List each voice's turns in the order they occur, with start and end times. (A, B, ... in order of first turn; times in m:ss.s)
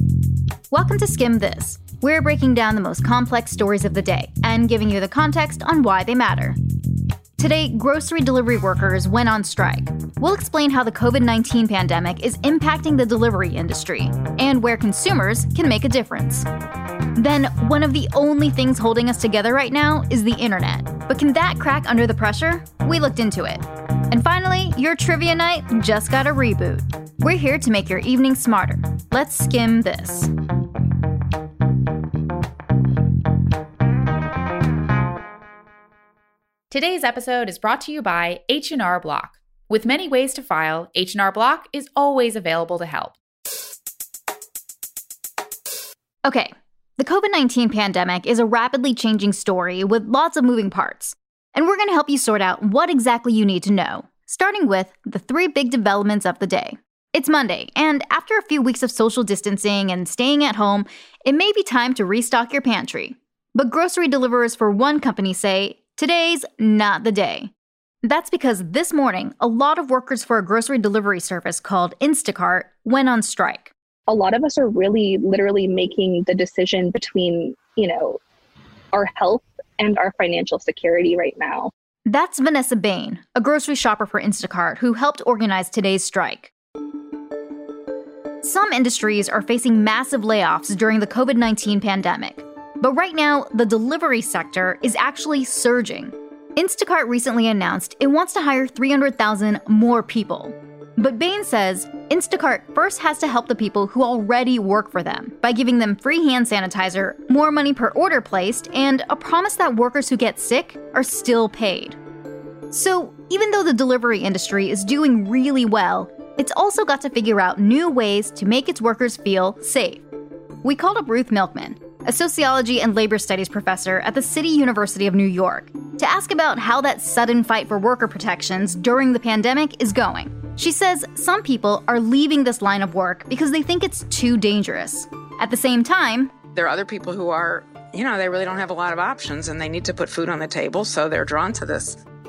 0:00.7-0:06.6 A
0:07.4-0:16.5 A
0:17.2-0:30.3 A
0:36.7-0:43.2 B
0:46.2-1:07.5 A
1:08.0-1:13.7 A
1:14.1-1:18.2 C
1:18.9-1:21.7 C
1:22.1-1:26.5 A
1:28.4-1:52.0 A
1:52.7-2:00.0 A
2:00.6-2:16.3 A
2:16.6-2:22.0 D